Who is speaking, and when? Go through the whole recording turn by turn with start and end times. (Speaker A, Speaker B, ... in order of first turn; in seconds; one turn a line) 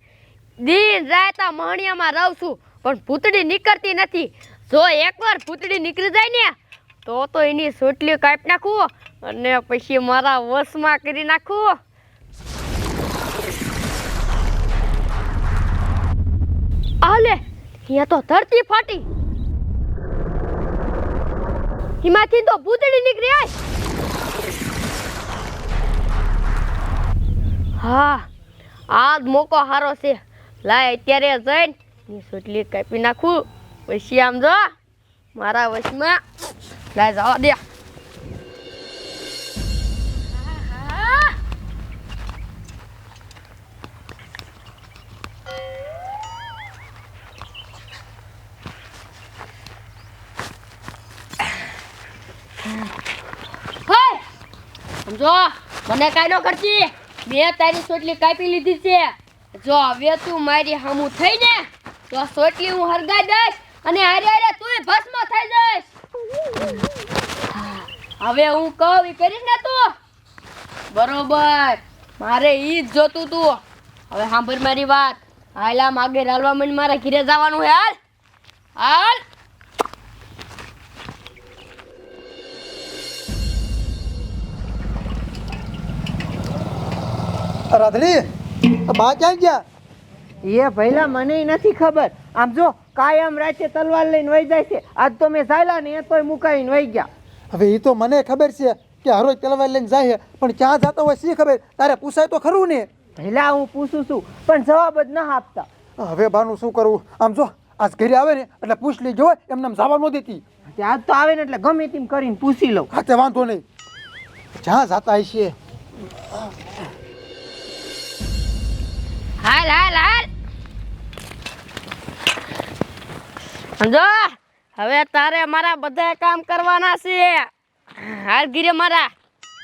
Speaker A: 0.6-6.5
Speaker A: 7.0-11.8
Speaker A: 17.0-19.1
Speaker A: 22.0-23.5
Speaker A: 27.8-28.3
Speaker A: 28.9-34.7
Speaker A: 35.4-36.2
Speaker A: 37.0-37.6
Speaker A: 40.6-41.3
Speaker A: 53.9-54.2
Speaker A: 55.1-65.9
Speaker A: 67.6-69.9
Speaker A: 70.9-78.0
Speaker A: 78.8-79.2
Speaker B: 87.7-88.2
Speaker B: 88.9-89.6
Speaker C: 90.4-97.1
Speaker B: 97.5-102.9
Speaker C: 103.2-105.7
Speaker B: 106.0-110.4
Speaker C: 110.7-112.9
Speaker B: 112.9-113.6
Speaker B: 114.6-115.5
Speaker A: 119.4-120.3
Speaker A: 123.8-129.1